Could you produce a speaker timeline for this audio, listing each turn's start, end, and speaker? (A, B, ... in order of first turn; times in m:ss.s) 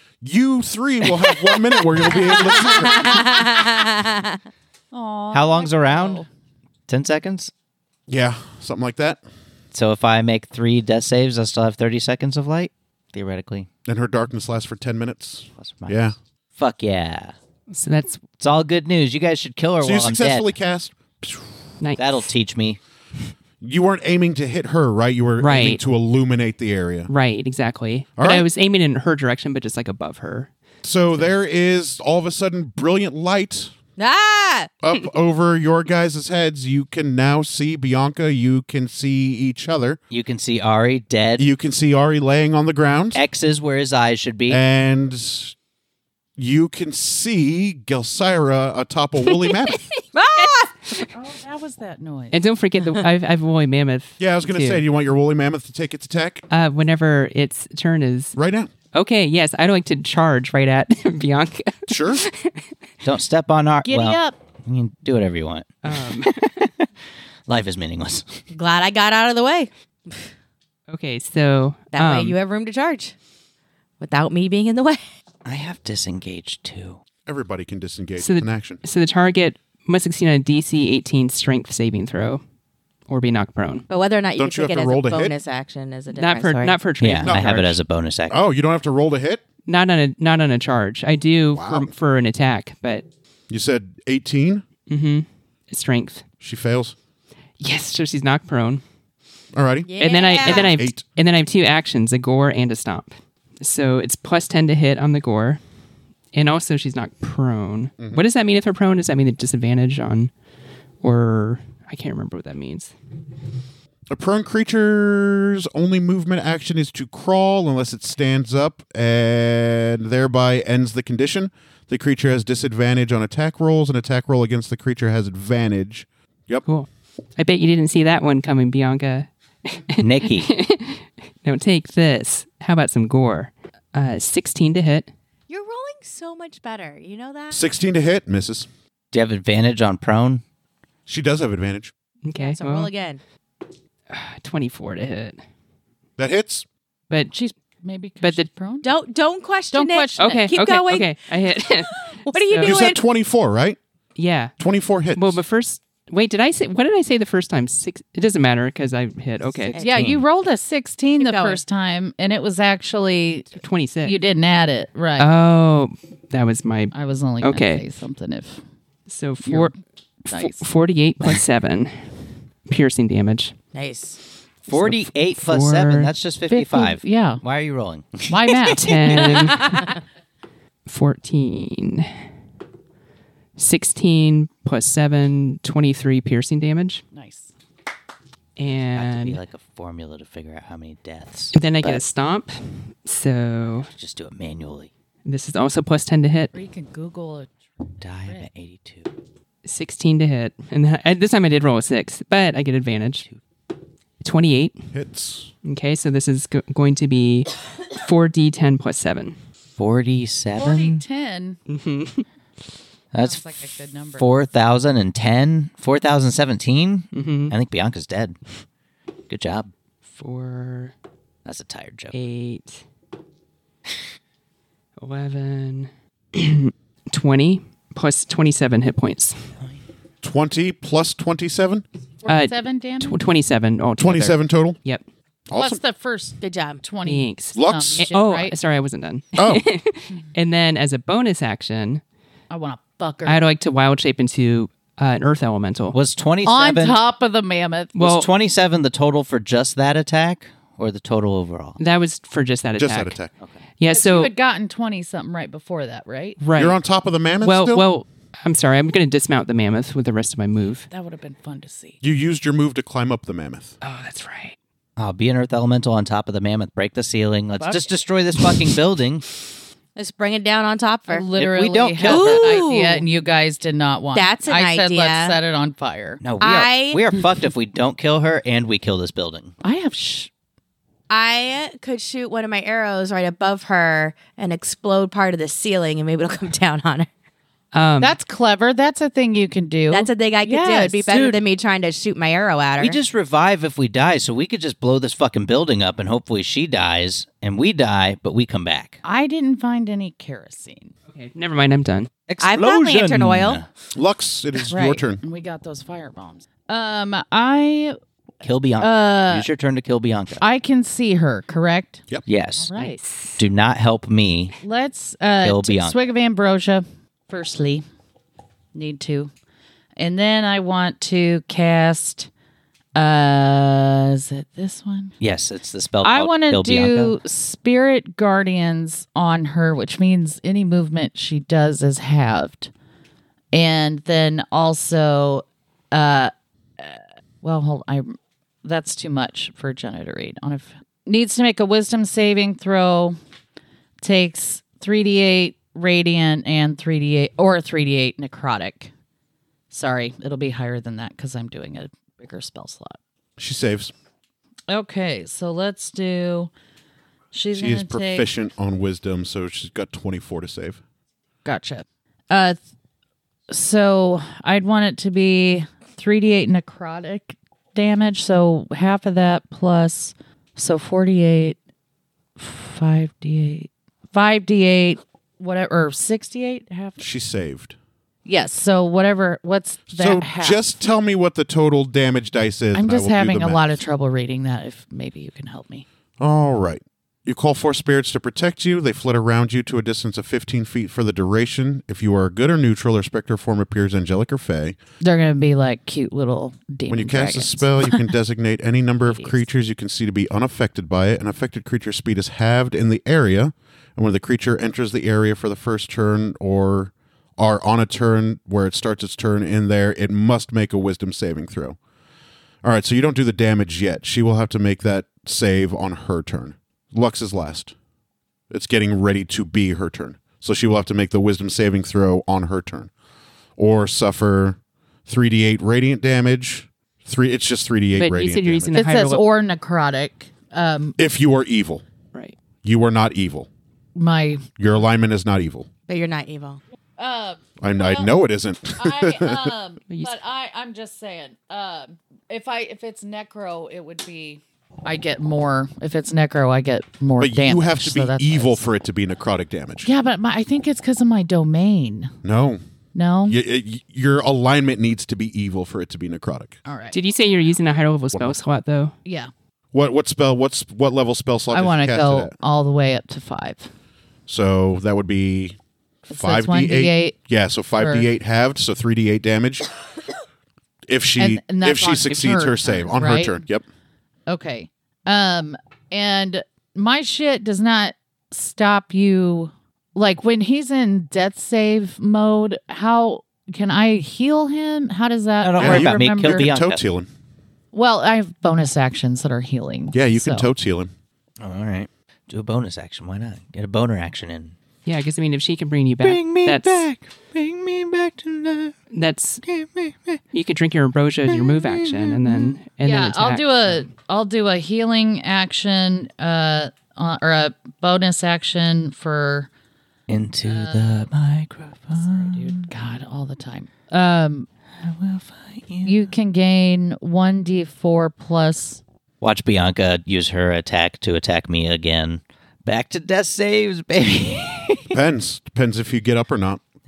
0:00.2-0:03.5 A
0:01.0-0:01.6 B
0:02.6-0:04.4 C
0:04.9-0:06.3 D
0:05.3-0:06.2 B
0:06.9-0:07.5 B
0:08.1-0:09.2 A
0:09.7-0:13.7 B
0:13.9-0:16.2 A
0:15.6-0:16.0 B
0:16.6-0:17.4 B
0:17.7-0:18.2 E
0:18.4-0:20.5 B
0:19.8-0:21.4 A
0:21.8-0:22.2 E
0:22.0-0:22.8 B
0:23.6-0:27.1 A
0:25.4-0:25.8 E
0:27.1-0:30.5 E
0:28.2-0:28.5 A
0:30.8-0:33.7 A
0:34.0-0:34.7 C
0:34.8-0:40.0 A
0:40.1-0:41.5 B
0:41.4-0:43.2 A
0:43.2-0:44.6 B
0:44.5-0:45.6 A
0:46.4-0:49.9 A
0:49.3-0:51.1 E
0:50.2-0:50.7 C
0:51.1-0:52.4 D
0:52.3-0:54.8 E
0:54.2-0:56.4 A
0:56.5-0:58.4 E
0:58.4-0:58.7 A
0:58.9-1:02.7 E
1:01.9-1:02.2 A
1:03.0-1:06.9 B
1:03.8-1:04.4 D
1:05.8-1:06.5 E
1:07.5-1:08.4 B
1:08.5-1:10.3 C
1:10.9-1:12.4 E
1:11.9-1:13.2 C
1:14.0-1:15.0 C
1:15.4-1:17.0 B
1:17.3-1:18.8 A
1:18.2-1:22.4 E
1:23.1-1:23.9 E
1:23.9-1:26.8 C
1:24.4-1:25.3 A
1:26.1-1:27.8 E
1:27.0-1:28.4 B
1:27.2-1:27.6 A
1:28.3-1:29.4 A
1:29.7-1:33.1 E
1:31.5-1:31.9 A
1:33.5-1:34.7 A
1:34.9-1:36.2 E
1:36.4-1:37.0 A
1:37.6-1:38.8 E
1:39.6-1:39.9 A
1:39.9-1:40.8 C
1:40.0-1:45.6 E
1:40.4-1:41.0 A
1:46.3-1:50.3 E
1:51.0-1:52.9 E
1:54.1-2:06.6 A
2:06.6-2:15.1 E
2:10.0-2:10.5 B
2:15.5-2:17.6 C
2:17.5-2:18.7 A
2:19.1-2:20.4 B
2:21.1-2:21.9 A
2:22.2-2:22.9 E
2:22.4-2:23.2 C
2:24.1-2:25.4 E
2:26.2-2:26.7 A
2:27.3-2:28.9 D
2:28.2-2:28.5 E
2:28.8-2:33.0 C
2:29.7-2:30.5 D
2:30.2-2:32.8 E
2:32.6-2:33.8 A
2:34.2-2:34.5 E
2:34.6-2:35.4 A
2:35.2-2:39.8 E
2:39.7-2:40.0 C
2:39.8-2:45.3 D
2:39.8-2:40.2 B
2:41.2-2:41.6 C
2:43.5-2:44.2 E
2:45.2-2:47.8 E
2:46.9-2:48.6 D
2:49.1-2:49.8 E
2:49.4-2:49.7 D
2:50.3-2:53.5 E
2:50.3-2:50.6 D
2:53.7-2:54.2 C
2:54.7-2:58.8 B
2:54.7-2:56.1 E
2:56.5-2:57.4 D
2:58.3-2:59.6 D
2:58.8-2:59.9 E
2:59.4-2:59.9 C
3:00.9-3:02.2 E
3:03.6-3:07.0 E
3:07.1-3:07.5 D
3:08.6-3:09.4 E
3:09.0-3:11.5 B
3:11.5-3:13.9 E
3:13.9-3:14.9 B
3:15.2-3:16.6 E
3:16.5-3:17.7 D
3:18.0-3:19.1 B
3:19.6-3:23.3 E
3:24.2-3:24.9 E
3:24.9-3:25.5 A
3:25.6-3:29.4 E
3:29.8-3:31.0 B
3:30.6-3:31.6 D
3:31.7-3:32.2 E
3:33.1-3:33.4 B
3:33.2-3:34.3 D
3:34.2-3:38.4 B
3:37.1-3:37.6 E
3:39.3-3:39.7 B
3:40.1-3:40.9 E
3:41.4-3:42.2 B
3:42.1-3:42.8 E
3:45.0-3:49.6 E
3:50.2-3:51.8 A
3:52.2-3:53.2 D
3:52.3-3:55.0 E
3:54.0-3:54.8 A
3:55.5-3:55.8 A
3:55.6-3:58.6 D
3:56.4-3:56.8 C
3:57.0-4:02.0 E
3:57.6-3:58.0 A
3:59.4-3:59.7 A
4:02.5-4:03.5 D
4:03.2-4:06.0 E
4:05.9-4:07.0 B
4:06.4-4:08.0 D
4:08.0-4:08.3 E
4:08.0-4:11.8 B
4:11.8-4:13.2 E
4:12.8-4:13.3 A
4:13.8-4:14.3 E
4:13.9-4:16.4 D
4:16.4-4:16.8 E
4:16.6-4:17.8 A
4:17.4-4:20.9 E
4:20.9-4:22.0 D
4:22.0-4:23.8 A
4:23.8-4:24.6 E
4:25.0-4:29.3 B
4:30.0-4:31.3 C
4:31.1-4:36.2 D
4:31.4-4:32.6 B
4:32.0-4:33.1 C
4:34.1-4:35.4 C
4:36.2-4:39.5 B
4:36.4-4:37.0 C
4:39.6-4:40.3 D
4:41.1-4:47.1 C
4:47.7-4:48.2 E
4:48.0-4:51.4 D
4:49.9-4:53.0 C
4:52.8-4:59.0 B
4:59.0-5:00.9 D
5:01.1-5:02.1 E
5:02.3-5:03.7 B
5:02.4-5:03.6 C
5:04.0-5:05.2 A
5:04.7-5:08.0 D
5:08.4-5:10.4 B
5:08.8-5:09.5 D
5:10.4-5:12.0 D
5:12.3-5:12.7 B
5:12.6-5:13.0 D
5:12.8-5:13.4 E
5:13.4-5:14.6 B
5:14.6-5:17.8 D
5:15.4-5:16.0 B
5:18.7-5:19.3 D
5:20.0-5:22.3 D
5:23.0-5:25.2 D
5:25.2-5:27.2 B
5:26.0-5:32.7 D
5:33.5-5:43.2 D
5:44.0-5:48.9 D
5:49.7-5:53.0 D
5:53.4-5:53.9 A
5:54.7-5:56.5 D
5:57.3-5:58.3 D
5:57.6-6:00.8 A
6:01.4-6:02.6 D
6:03.5-6:11.6 D
6:12.4-6:17.0 D
6:17.0-6:17.8 A
6:18.2-6:20.7 D
6:19.9-6:23.8 A
6:22.7-6:25.9 D
6:26.2-6:34.8 A
6:35.0-6:38.1 D
6:36.9-6:51.8 A
6:39.0-6:39.4 D
6:52.6-6:57.7 A
6:58.5-7:02.9 A
7:03.6-7:08.8 A
7:07.9-7:09.2 E
7:08.7-7:11.0 D
7:11.0-7:11.8 A
7:12.6-7:13.5 A
7:14.0-7:14.5 D
7:14.6-7:15.7 A
7:15.9-7:16.6 C
7:17.0-7:18.1 D
7:17.6-7:19.5 A
7:18.8-7:28.6 D
7:27.2-7:29.9 A
7:29.8-7:32.2 D
7:32.2-7:32.6 A
7:33.0-7:33.4 D
7:33.3-7:36.6 A
7:36.7-7:37.0 D
7:36.9-7:38.9 E
7:39.0-7:39.3 D
7:39.7-7:42.3 A
7:41.5-7:43.7 D
7:44.3-7:45.6 A
7:46.1-7:47.2 D
7:46.1-7:49.7 A
7:47.8-7:48.1 D
7:50.9-7:53.6 A
7:51.2-7:53.4 D
7:54.3-8:06.5 D
8:05.4-8:06.8 B
8:05.6-8:07.1 A
8:07.7-8:10.5 D
8:09.9-8:10.9 A
8:11.4-8:14.6 B
8:14.8-8:16.9 E
8:16.0-8:18.8 B
8:18.9-8:19.4 E
8:19.4-8:20.2 B
8:20.3-8:23.8 E
8:21.3-8:22.4 B
8:22.8-8:29.5 D
8:30.1-8:32.7 B
8:30.4-8:31.0 D
8:32.0-8:34.5 D
8:34.8-8:36.0 B
8:35.8-8:38.8 D
8:39.2-8:45.0 B
8:44.9-8:46.6 A